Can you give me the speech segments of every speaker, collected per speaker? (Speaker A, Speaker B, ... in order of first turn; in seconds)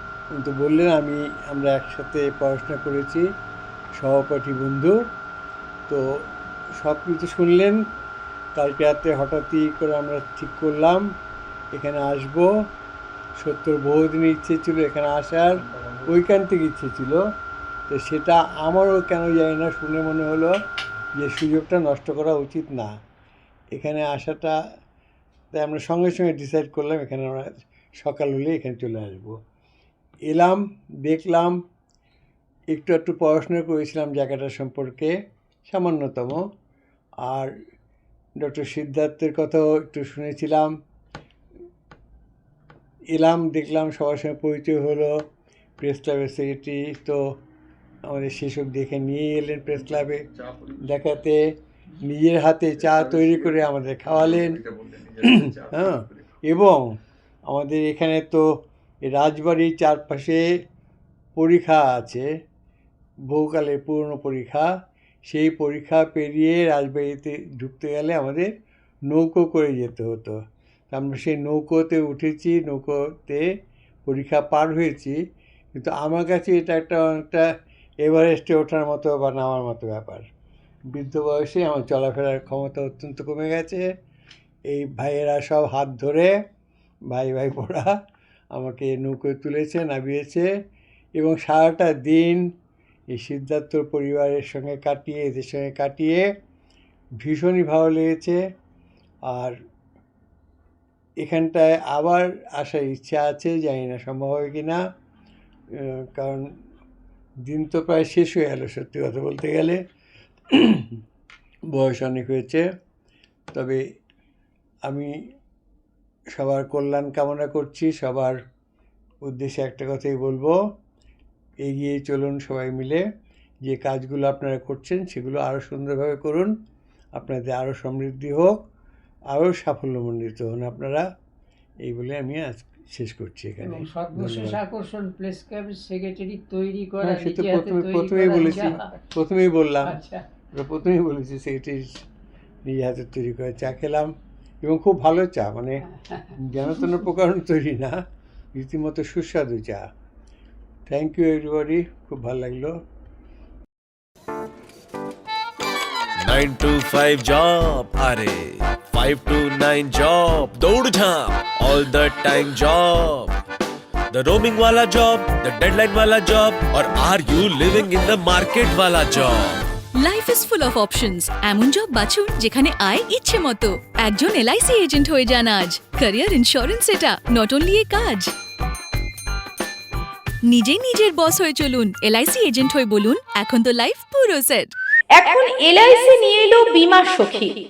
Speaker A: 0.4-3.2, 4.0-4.9, 6.8-7.8, 8.6-11.1, 11.7-12.5, 13.4-17.2, 17.9-20.5, 21.2-22.9, 23.7-24.6, 25.5-29.4, 30.3-31.6, 32.7-35.1, 35.7-36.4, 37.2-37.5, 38.4-40.8, 43.1-45.1, 45.8-47.2, 48.1-51.4, 52.0-56.9, 57.5-58.5, 59.0-60.4, 61.4-62.3, 63.3-64.7, 65.3-68.5, 69.1-70.4, 70.9-73.4, 74.0-75.2, 75.8-77.4, 78.0-80.2, 80.9-83.8, 84.7-86.3, 87.1-87.9, 88.5-90.5, 91.2-92.4, 93.1-96.2, 97.2-98.4, 99.3-99.5, 101.2-104.8, 105.8-106.5, 107.5-109.8, 110.5-111.0, 111.7-112.6, 113.5-113.8, 116.3-118.4, 119.2-120.5, 121.6-123.0, 123.6-126.5, 127.2-128.6, 129.3-131.0, 131.9-134.6, 137.0-140.0, 140.5-142.0, 142.7-144.1, 144.6-148.0, 148.5-149.8, 150.9-152.8
Speaker B: 133.6-139.0, 139.8-140.2, 145.9-147.0
Speaker C: 156.2-163.3, 164.1-169.6
Speaker D: 169.9-178.3, 180.5-184.7
Speaker E: 185.2-187.6